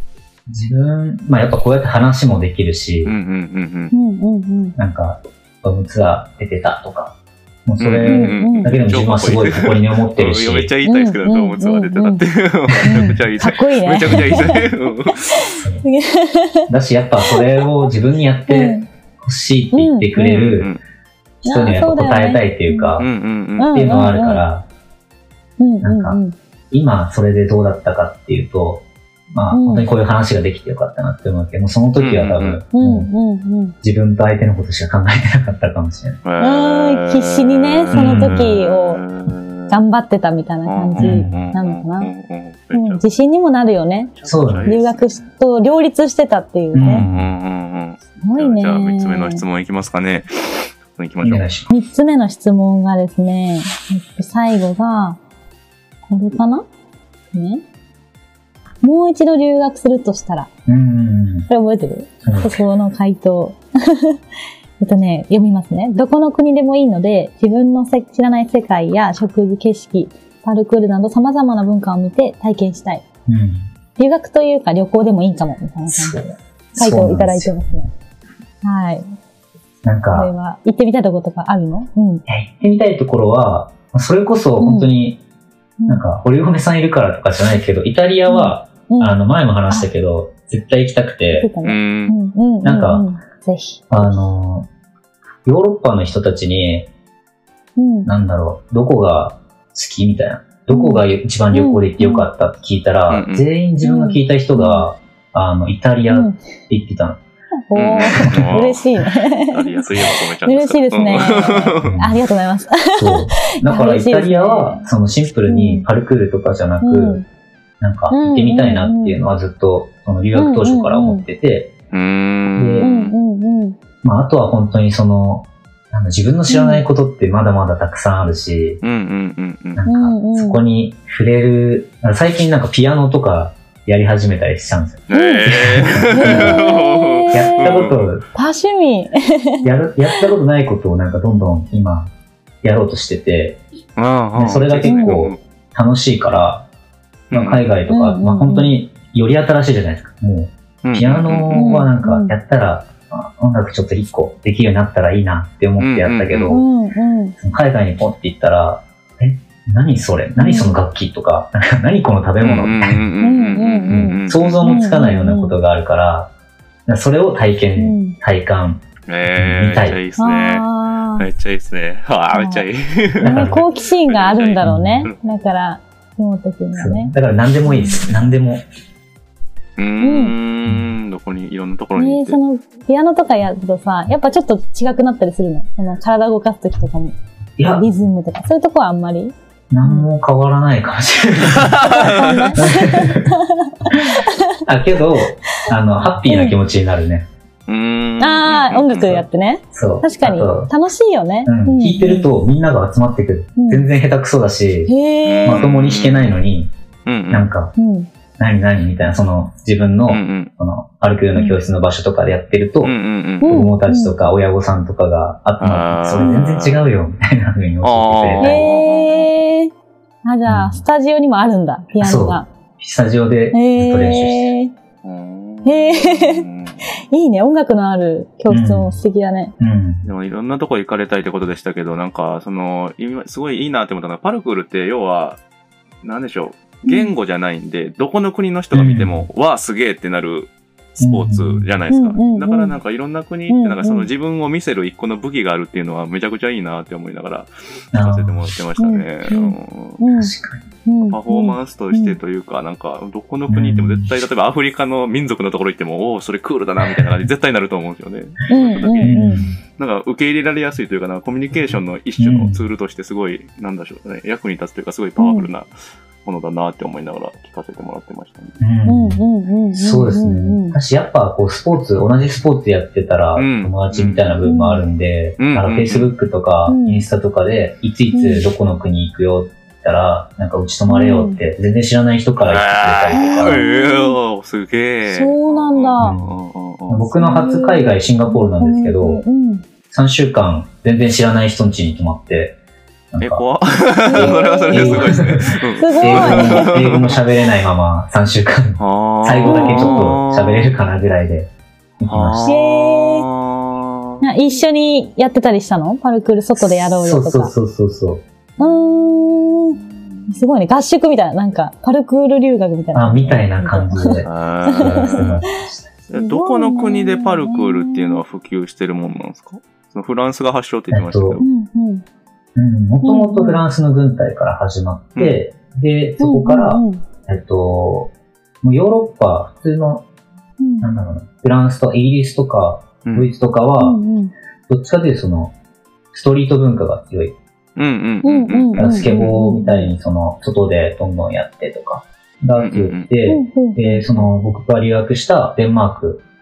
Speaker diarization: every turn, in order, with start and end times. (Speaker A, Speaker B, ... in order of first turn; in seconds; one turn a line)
Speaker A: 0.5-3.1
Speaker B: 3.0-3.9
Speaker C: 3.9-4.8
Speaker A: 4.8-10.7
Speaker B: 7.8-15.4
Speaker C: 8.0-8.7
Speaker C: 10.8-12.2
Speaker C: 12.8-16.7
Speaker A: 12.8-13.2
Speaker A: 14.1-14.7
Speaker A: 15.6-15.8
Speaker A: 16.7-20.7
Speaker C: 17.2-17.7
Speaker C: 18.5-18.9
Speaker C: 19.7-20.5
Speaker B: 20.2-20.8
Speaker C: 21.4-22.9
Speaker A: 21.4-23.1
Speaker B: 23.0-23.8
Speaker C: 23.6-24.4
Speaker A: 23.7-24.6
Speaker C: 25.6-26.3
Speaker A: 25.8-26.2
Speaker A: 26.7-33.1
Speaker C: 29.5-29.9
Speaker B: 32.0-32.6
Speaker C: 32.7-33.8
Speaker A: 33.8-36.2
Speaker B: 36.2-39.8
Speaker C: 36.4-39.0
Speaker A: 37.9-38.5
Speaker C: 39.7-42.1
Speaker B: 40.6-43.1
Speaker A: 41.0-41.4
Speaker C: 42.7-44.1
Speaker B: 44.1-45.3
Speaker A: 44.2-44.8
Speaker C: 44.6-47.0
Speaker A: 46.7-47.3
Speaker B: 46.8-51.5
Speaker C: 48.2-49.4
Speaker A: 51.2-51.7
Speaker C: 51.7-55.2
Speaker C: 56.1-56.6
Speaker C: 57.3-57.6
Speaker C: 58.8-60.5
Speaker A: 60.7-61.5
Speaker C: 61.5-64.2
Speaker A: 62.2-62.6
Speaker C: 64.8-73.0
Speaker A: 73.3-73.7
Speaker C: 74.0-76.2
Speaker A: 75.9-77.6
Speaker C: 76.8-77.9
Speaker C: 78.6-79.1
Speaker A: 79.8-80.3
Speaker C: 80.1-82.2
Speaker A: 82.3-85.2
Speaker C: 84.6-84.9
Speaker C: 85.8-86.0
Speaker A: 85.9-91.5
Speaker C: 88.3-89.9
Speaker C: 91.3-94.2
Speaker B: 91.6-92.1
Speaker A: 92.6-93.0
Speaker A: 93.9-94.7
Speaker A: 95.4-96.9
Speaker C: 97.8-98.1
Speaker A: 98.0-107.2
Speaker C: 100.7-102.3
Speaker B: 103.1-103.5
Speaker C: 103.8-104.8
Speaker C: 106.1-106.4
Speaker C: 107.7-109.9
Speaker B: 107.7-111.9
Speaker A: 108.2-108.6
Speaker C: 110.4-114.9
Speaker A: 111.8-112.2
Speaker A: 112.9-117.2
Speaker C: 115.5-115.8
Speaker C: 116.8-117.2
Speaker A: 117.8-121.7
Speaker C: 118.1-119.2
Speaker C: 120.3-121.2
Speaker B: 121.9-123.1
Speaker A: 122.6-122.9
Speaker C: 122.8-123.8
Speaker A: 124.0-128.8
Speaker C: 126.5-126.8
Speaker B: 128.8-129.8
Speaker A: 129.7-136.7
Speaker C: 129.9-130.6
Speaker B: 135.1-138.1
Speaker C: 135.1-135.5
Speaker C: 136.0-137.8
Speaker A: 137.3-138.2
Speaker C: 138.3-140.2
Speaker A: 139.6-142.1
Speaker A: 142.6-143.6
Speaker B: 144.0-145.4
Speaker A: 144.3-146.7
Speaker C: 144.8-145.1
Speaker B: 147.3-147.6
Speaker A: 147.3-156.6
Speaker C: 147.9-148.7
Speaker B: 150.8-151.8
Speaker C: 151.5-152.3
Speaker B: 155.8-156.6
Speaker C: 156.5-157.3
Speaker A: 157.4-163.0
Speaker C: 160.4-160.7
Speaker B: 162.4-164.8
Speaker C: 163.2-165.5
Speaker A: 163.9-166.3
Speaker A: 166.9-168.8
Speaker C: 167.8-168.2
Speaker B: 169.1-170.7
Speaker A: 169.4-170.0
Speaker C: 170.2-171.2
Speaker B: 171.2-175.2
Speaker C: 172.3-172.6
Speaker A: 173.2-173.6
Speaker C: 173.2-177.1
Speaker A: 174.6-175.1
Speaker A: 176.7-178.6
Speaker C: 177.7-178.0
Speaker B: 179.8-182.4
Speaker C: 180.0-180.3
Speaker C: 181.9-187.2
Speaker A: 187.6-187.9
Speaker C: 187.7-190.1
Speaker A: 189.7-193.3
Speaker B: 191.6-192.5
Speaker C: 191.9-194.6
Speaker A: 193.9-197.3
Speaker C: 196.3-196.6
Speaker B: 197.7-199.2
Speaker C: 198.2-202.3
Speaker A: 199.7-200.7
Speaker A: 201.4-204.9
Speaker C: 203.6-203.9
Speaker C: 204.9-205.7
Speaker B: 205.2-206.4
Speaker A: 205.4-206.7
Speaker B: 207.1-207.5
Speaker A: 207.3-207.7
Speaker C: 207.8-208.1
Speaker A: 208.4-218.6
Speaker B: 210.1-210.5
Speaker B: 212.8-213.6
Speaker C: 213.4-214.1
Speaker B: 215.6-216.9
Speaker C: 216.2-216.5
Speaker B: 217.8-219.3
Speaker C: 218.4-219.7
Speaker C: 220.2-222.5
Speaker A: 220.5-220.8
Speaker A: 222.0-224.5
Speaker C: 223.5-224.7
Speaker B: 225.0-226.9
Speaker C: 225.6-226.4
Speaker C: 227.1-229.5
Speaker A: 228.5-229.0
Speaker A: 229.6-230.0
Speaker B: 230.0-235.4
Speaker B: 236.0-250.0
Speaker C: 236.8-237.1
Speaker A: 238.7-239.3
Speaker A: 241.0-241.7
Speaker C: 241.9-242.8
Speaker C: 243.5-244.1
Speaker A: 247.9-248.4
Speaker C: 248.8-250.3
Speaker A: 250.1-250.7
Speaker C: 250.8-252.2
Speaker B: 251.1-265.7
Speaker A: 253.5-254.1
Speaker C: 258.5-259.4
Speaker A: 259.0-259.6
Speaker A: 261.6-262.6
Speaker C: 265.2-265.5
Speaker B: 266.2-268.6
Speaker A: 268.6-283.6
Speaker C: 268.9-270.8
Speaker B: 273.4-274.4
Speaker C: 274.4-274.8
Speaker B: 275.4-276.1
Speaker C: 276.7-277.0
Speaker C: 278.1-278.4
Speaker C: 280.9-281.4
Speaker B: 282.4-287.1
Speaker C: 283.1-284.2
Speaker C: 285.0-286.1
Speaker A: 286.0-286.3
Speaker A: 286.9-289.2
Speaker C: 287.1-289.6
Speaker A: 289.9-292.6
Speaker A: 293.1-293.4
Speaker B: 293.2-297.2
Speaker C: 294.0-297.2
Speaker A: 294.1-302.5
Speaker B: 298.8-300.8
Speaker C: 299.4-300.1
Speaker B: 302.0-304.2
Speaker C: 302.4-303.3
Speaker C: 304.2-307.5
Speaker A: 306.6-308.2
Speaker C: 308.6-315.3
Speaker B: 308.6-310.3
Speaker A: 312.9-316.0
Speaker B: 314.2-315.4
Speaker B: 316.1-321.4
Speaker C: 316.1-318.2
Speaker A: 320.9-321.4
Speaker C: 321.4-322.0
Speaker A: 322.5-330.1
Speaker C: 323.0-323.6
Speaker C: 326.2-327.0
Speaker C: 330.6-330.9
Speaker A: 330.8-334.0
Speaker B: 333.0-333.3
Speaker C: 333.8-334.3
Speaker A: 334.7-335.5
Speaker A: 336.1-337.4
Speaker B: 337.8-339.3
Speaker C: 338.2-339.9
Speaker A: 338.8-346.2
Speaker B: 342.6-343.1
Speaker C: 343.2-344.3